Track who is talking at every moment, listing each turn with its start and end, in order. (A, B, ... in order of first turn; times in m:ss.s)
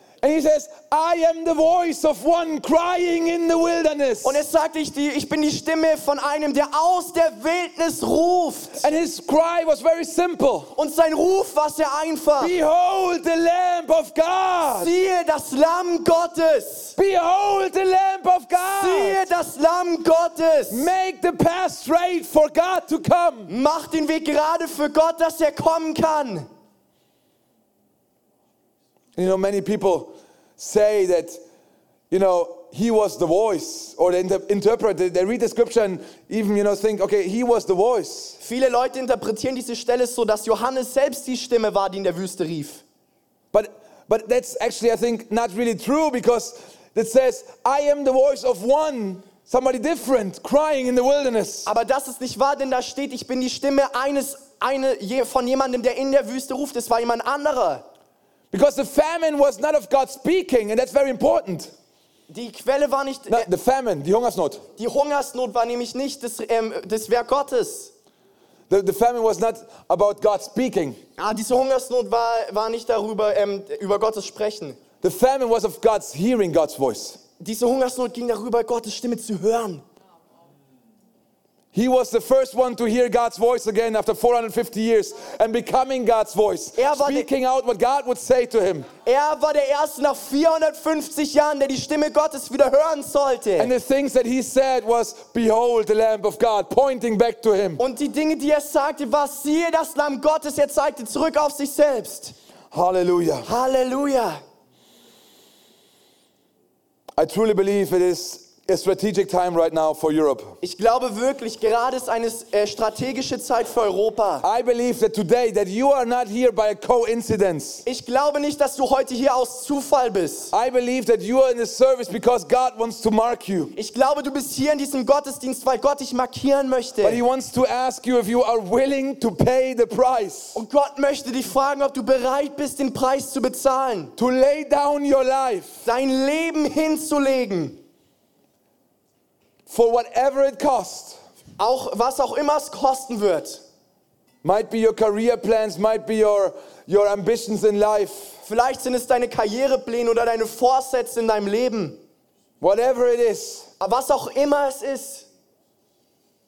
0:00.2-0:04.4 A
0:04.2-0:08.9 B
0:08.8-0:10.7 A
0:10.8-0:12.6 B
0:12.4-0:14.9 A
0:14.7-0:17.0 B
0:17.0-0:19.2 A
0:18.6-0:20.9 B
0:20.7-0:23.5 A
0:23.5-0:26.5 B
0:29.2-0:31.4 A
0:32.1-0:38.4 A
0:38.4-0:42.8 B
0:43.5-0:51.7 A
0:51.7-0:57.8 B
0:58.5-1:01.7 A
1:02.3-1:03.5 B
1:03.3-1:04.6 A
1:04.8-1:07.9 B
1:08.7-1:11.0 A
1:11.2-1:14.8 B
1:15.0-1:17.2 A
1:17.4-1:19.8 B
1:21.7-1:28.9 A
1:26.8-1:27.3 B
1:29.0-1:33.7 B
1:33.6-1:37.8 A
1:37.8-1:42.3 B
1:42.7-1:43.5 A
1:43.4-1:44.4 B
1:47.2-1:50.6 A
1:50.6-1:54.5 B
1:54.4-1:57.8 A
1:57.8-2:00.5 B
2:00.5-2:03.7 A
2:03.8-2:07.2 B
2:07.0-2:10.6 A
2:10.5-2:14.1 B
2:14.2-2:15.9 A
2:15.8-2:17.8 B
2:19.7-2:21.2 A
2:21.6-2:23.6 B
2:24.4-2:28.4 A
2:28.5-2:32.0 B
2:32.6-2:33.7 A
2:33.8-2:35.3 B